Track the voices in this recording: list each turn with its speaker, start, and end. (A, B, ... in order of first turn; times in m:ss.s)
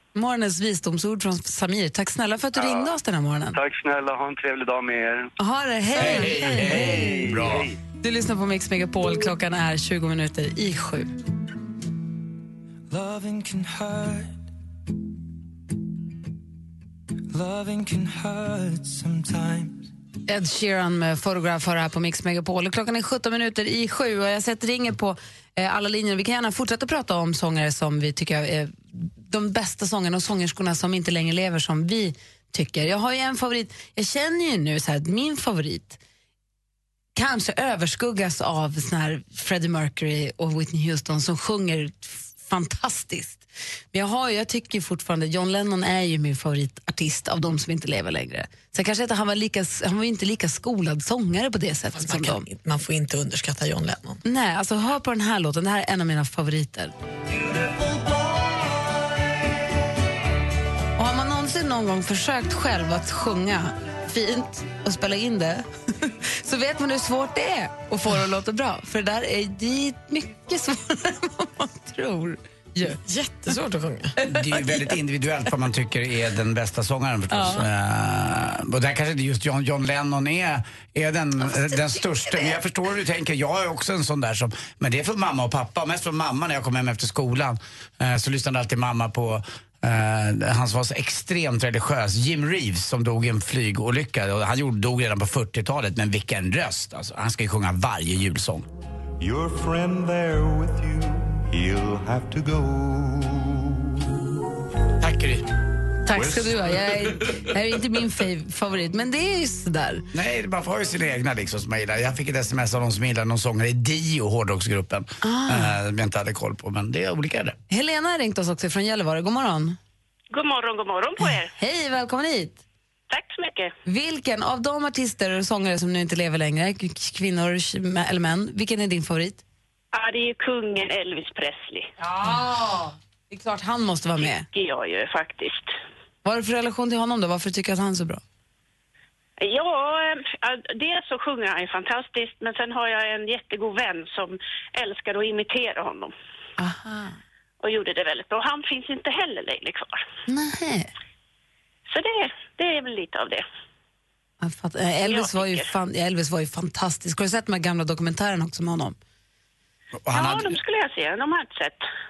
0:00.2-0:03.6 A
0:02.6-0:02.9 B
0:03.5-0:05.3 B
0:05.4-0:07.4 A
0:05.9-0:07.7 C
0:06.1-0:07.8 B
0:08.0-0:11.1 A
0:12.9-0:14.4 D
0:17.3-0:19.9 D
0:20.3-0:36.0 A
0:37.2-0:52.4 A
0:52.0-0:54.2 E
0:54.2-0:56.9 A
1:01.0-1:13.0 A
1:12.8-1:14.9 E
1:14.2-1:38.7 C
1:39.2-1:40.4 F
1:41.6-1:42.8 F
1:45.0-1:45.5 C
1:46.1-1:50.0 A
1:50.1-1:57.6 C
1:55.2-1:55.8 A
1:57.7-1:59.8 A
2:00.3-2:01.5 G
2:01.2-2:02.6 A
2:03.1-2:03.7 G
2:03.9-2:09.4 A
2:09.9-2:11.9 G
2:12.0-2:14.5 A
2:14.5-2:15.7 G
2:16.2-2:18.2 A
2:19.4-2:26.1 G
2:26.6-2:27.2 A
2:27.6-2:30.0 G
2:30.3-2:30.9 A
2:31.9-2:33.4 G
2:34.4-2:39.0 A
2:35.0-2:35.7 G
2:40.0-2:40.6 C
2:40.1-2:41.9 G